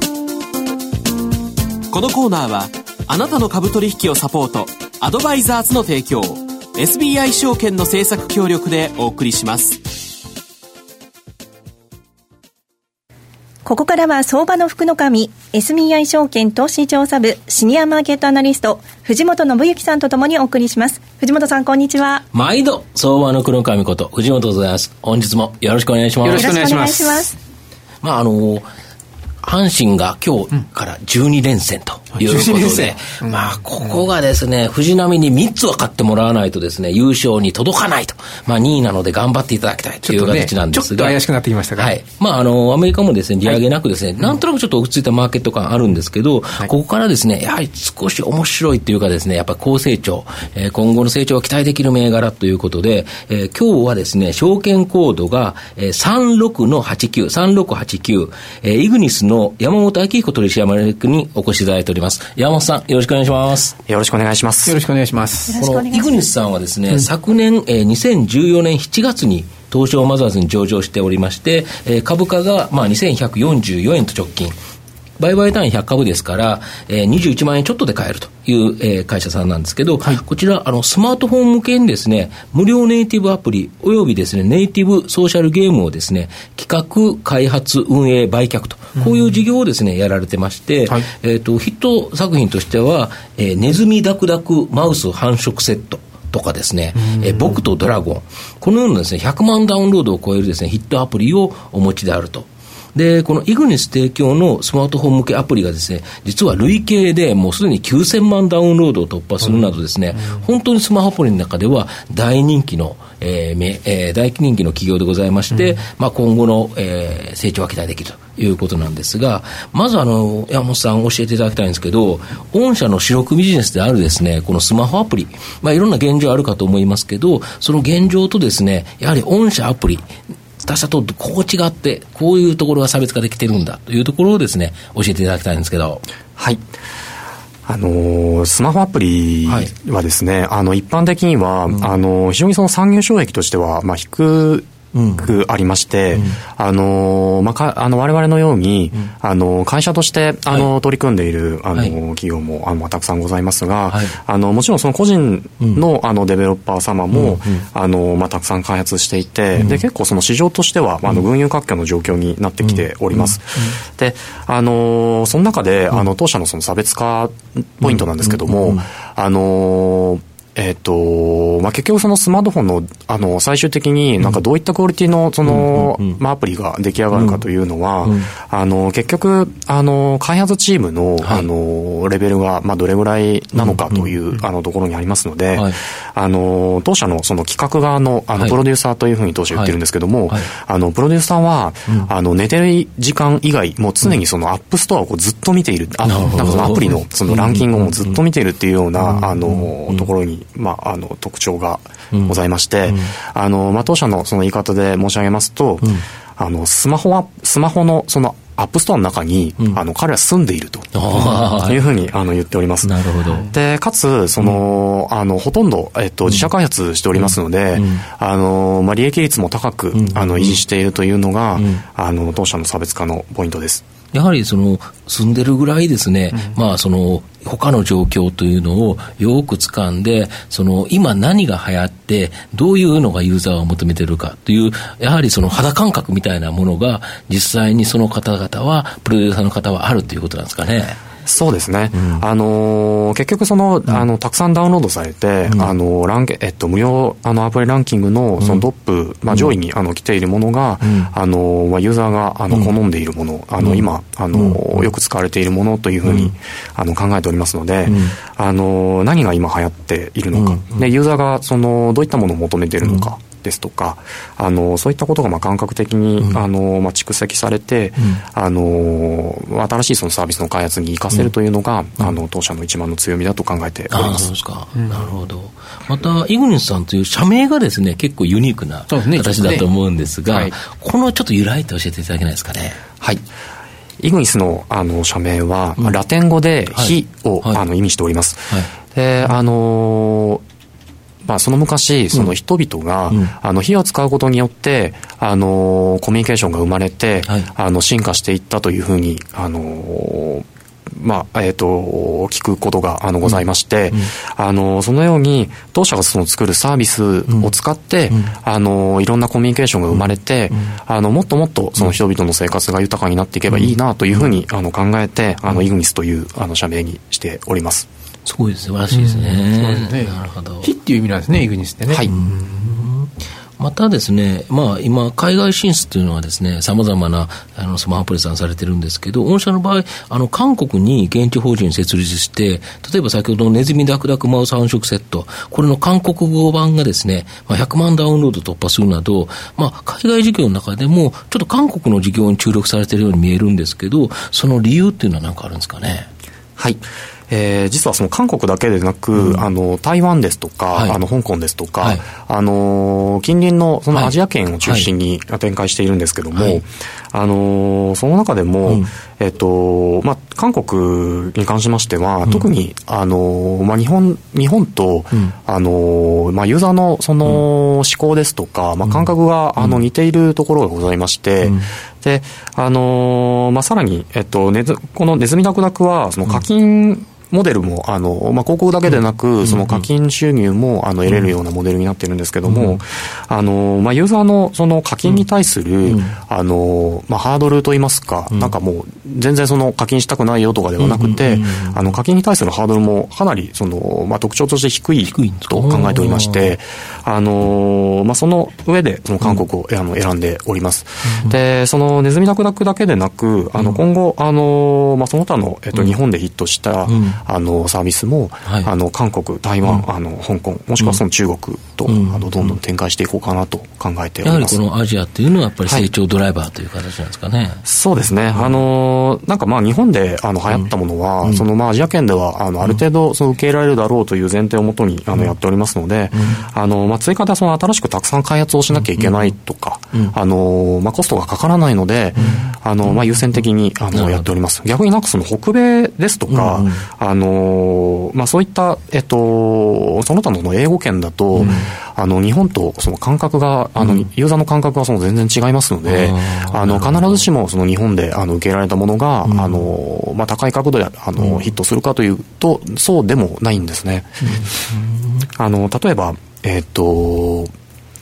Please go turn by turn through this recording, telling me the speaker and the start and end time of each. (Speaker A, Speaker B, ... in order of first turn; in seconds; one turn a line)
Speaker A: 1.9-9.8
Speaker B: 13.7-22.2
Speaker C: 22.3-26.5
Speaker D: 26.2-27.3
Speaker B: 26.3-27.4
Speaker C: 28.0-28.7
Speaker C: 29.4-41.2
Speaker D: 32.1-33.5
Speaker D: 40.0-42.0
Speaker C: 41.8-63.8
Speaker E: 63.9-64.8
Speaker D: 64.7-65.5
Speaker B: 65.5-66.1
Speaker C: 65.5-74.5
Speaker C: 75.2-130.1
Speaker D: 97.0-97.6
Speaker C: 130.6-136.0
Speaker E: 137.7-223.8
Speaker C: 139.5-139.7
Speaker C: 144.9-145.3
Speaker C: 146.1-146.4
Speaker C: 153.9-154.2
Speaker C: 157.1-157.6
Speaker C: 159.6-159.8
Speaker C: 162.6-163.3
Speaker C: 167.8-168.8
Speaker C: 175.4-176.2
Speaker C: 177.1-177.4
Speaker C: 178.0-178.3
Speaker C: 181.2-181.5
Speaker C: 183.6-184.1
Speaker C: 189.5-189.8
Speaker C: 196.0-198.2
Speaker C: 199.0-200.1
Speaker C: 202.9-203.1
Speaker C: 210.9-211.9
Speaker C: 212.8-213.5
Speaker C: 217.2-218.0
Speaker C: 219.9-220.6
Speaker C: 221.6-221.8
Speaker C: 224.1-241.0
Speaker E: 241.2-274.3
Speaker C: 241.9-242.2
Speaker C: 250.8-251.1
Speaker C: 253.6-254.8
Speaker C: 256.1-256.3
Speaker C: 257.9-258.1
Speaker C: 260.3-260.9
Speaker C: 273.9-282.8
Speaker D: 274.8-275.1
Speaker D: 278.9-279.7
Speaker D: 280.3-280.5
Speaker E: 284.0-290.4
Speaker C: 286.7-287.6
Speaker E: 291.2-300.4
Speaker E: 301.0-317.9
Speaker C: 303.2-304.1
Speaker C: 318.3-320.7
Speaker D: 318.9-322.6
Speaker C: 322.1-346.1
Speaker E: 346.6-414.6
Speaker C: 349.1-349.5
Speaker C: 350.7-351.0
Speaker C: 351.8-352.1
Speaker C: 353.9-354.9
Speaker C: 356.4-356.6
Speaker C: 368.9-369.8
Speaker C: 379.4-379.9
Speaker C: 382.4-382.8
Speaker C: 385.8-386.2
Speaker C: 390.8-392.0
Speaker C: 395.0-396.6
Speaker C: 401.1-401.3
Speaker C: 406.9-407.2
Speaker C: 408.5-408.7
Speaker C: 411.9-412.4
Speaker C: 414.2-417.6
Speaker E: 417.7-454.1
Speaker C: 426.1-426.4
Speaker C: 428.7-429.3
Speaker C: 432.2-433.0
Speaker C: 433.9-434.3
Speaker C: 436.3-436.9
Speaker C: 441.4-441.7
Speaker C: 443.8-444.1
Speaker C: 445.9-447.3
Speaker C: 449.2-449.6
Speaker C: 454.3-455.2
Speaker E: 455.4-457.5